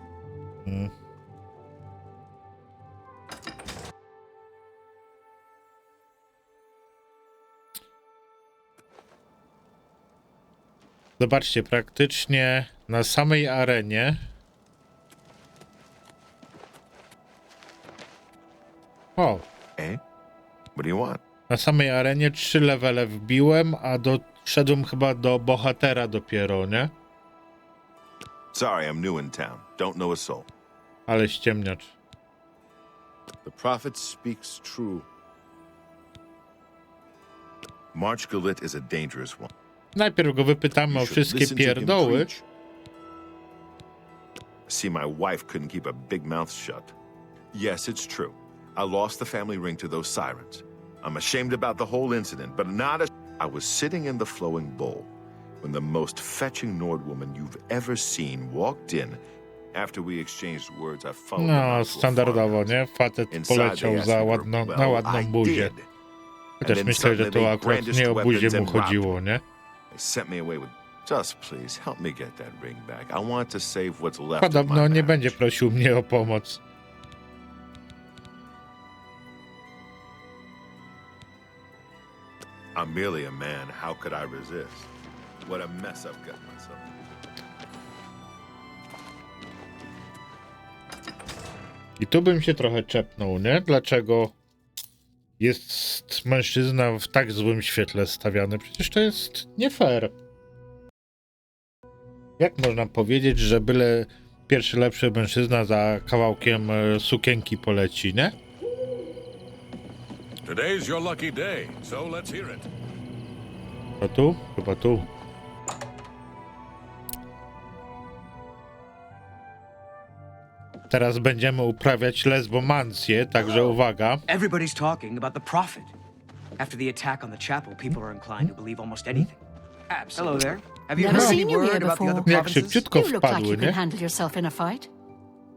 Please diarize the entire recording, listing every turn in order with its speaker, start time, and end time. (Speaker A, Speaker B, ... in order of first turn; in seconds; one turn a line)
Speaker A: 0.7-0.9
Speaker A: 11.2-14.2
Speaker A: 19.2-19.4
Speaker B: 20.8-21.2
Speaker A: 21.5-26.9
Speaker B: 28.5-30.5
Speaker A: 31.1-31.9
Speaker B: 33.4-35.1
Speaker B: 37.9-39.5
Speaker A: 40.0-42.3
Speaker B: 40.9-42.5
Speaker B: 44.7-46.9
Speaker B: 47.5-55.1
Speaker B: 55.6-59.2
Speaker B: 59.7-62.7
Speaker A: 61.4-65.7
Speaker B: 63.3-65.9
Speaker B: 66.6-69.1
Speaker A: 66.6-69.4
Speaker B: 69.9-75.4
Speaker A: 74.4-76.6
Speaker B: 82.8-84.9
Speaker B: 85.4-86.9
Speaker A: 92.0-94.3
Speaker A: 95.4-100.1
Speaker A: 102.4-108.3
Speaker C: 110.4-112.7
Speaker A: 114.0-115.1
Speaker A: 120.9-124.2
Speaker D: 124.3-125.9
Speaker D: 126.6-129.4
Speaker D: 129.9-132.9
Speaker E: 130.9-134.9
Speaker A: 131.0-131.4
Speaker A: 132.2-133.8